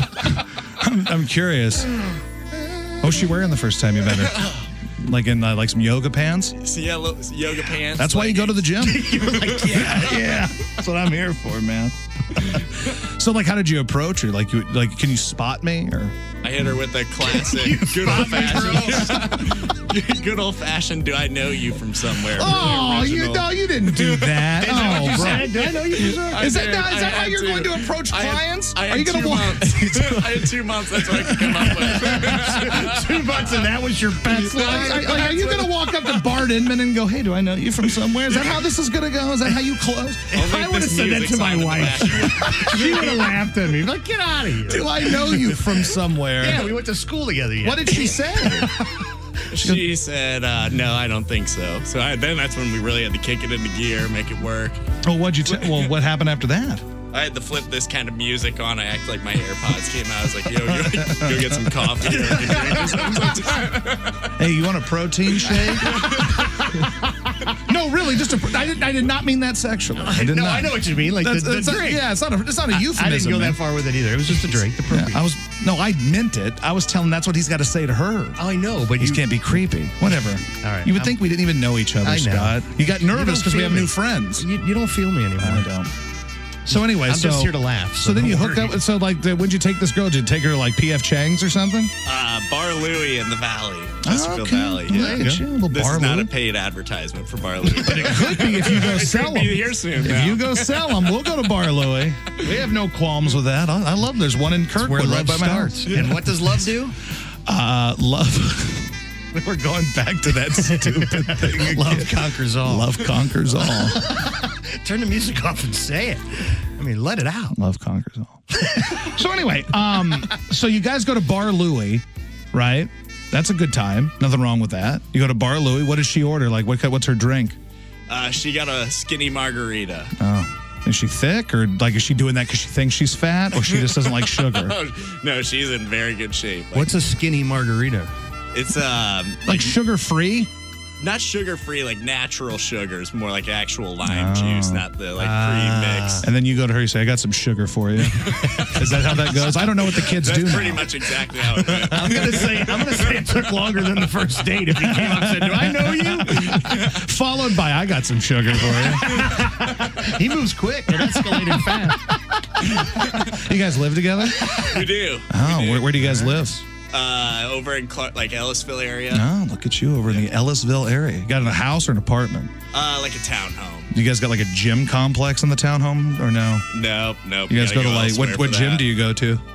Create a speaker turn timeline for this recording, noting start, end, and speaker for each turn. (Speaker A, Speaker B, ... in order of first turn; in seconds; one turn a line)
Speaker A: 0.8-1.9
Speaker A: 3.0-6.5
Speaker B: 4.3-4.6
Speaker B: 6.6-8.7
Speaker A: 8.0-16.2
Speaker C: 8.8-10.2
Speaker B: 9.5-9.9
Speaker B: 16.4-25.8
Speaker C: 17.2-19.3
Speaker A: 22.3-30.6
Speaker C: 24.6-26.6
Speaker B: 26.3-33.4
Speaker A: 31.1-32.5
Speaker C: 31.9-35.7
Speaker B: 34.3-35.5
Speaker A: 34.5-40.3
Speaker C: 40.3-48.8
Speaker B: 40.3-43.2
Speaker A: 44.7-46.7
Speaker A: 47.6-48.7
Speaker B: 49.5-54.8
Speaker A: 49.5-49.8
Speaker A: 55.0-56.8
Speaker B: 57.1-64.3
Speaker A: 60.7-61.8
Speaker C: 62.1-63.4
Speaker A: 64.4-66.2
Speaker C: 65.4-66.5
Speaker A: 67.7-73.6
Speaker C: 70.0-72.1
Speaker C: 72.7-75.2
Speaker A: 74.9-78.4
Speaker C: 78.4-79.3
Speaker A: 79.0-84.5
Speaker C: 80.6-81.2
Speaker C: 82.0-85.7
Speaker A: 85.4-85.9
Speaker A: 86.7-91.9
Speaker C: 86.7-88.8
Speaker B: 92.0-101.0
Speaker A: 94.0-96.3
Speaker C: 94.9-95.5
Speaker A: 97.8-106.1
Speaker C: 104.8-106.9
Speaker A: 107.5-114.1
Speaker C: 110.8-117.5
Speaker A: 117.5-127.6
Speaker C: 118.6-119.0
Speaker B: 128.1-130.1
Speaker A: 130.2-134.8
Speaker B: 133.7-136.9
Speaker C: 136.7-138.1
Speaker B: 138.5-139.7
Speaker A: 139.4-140.5
Speaker B: 141.0-146.2
Speaker A: 144.0-144.8
Speaker C: 145.2-146.2
Speaker A: 146.2-152.6
Speaker B: 149.9-152.9
Speaker C: 151.9-156.8
Speaker A: 155.0-159.4
Speaker C: 159.0-162.0
Speaker A: 162.6-164.6
Speaker B: 164.5-165.9
Speaker A: 165.3-166.6
Speaker C: 165.9-166.5
Speaker B: 166.9-169.3
Speaker A: 169.1-172.5
Speaker B: 172.7-173.9
Speaker A: 173.9-176.6
Speaker B: 176.7-178.9
Speaker A: 177.5-179.4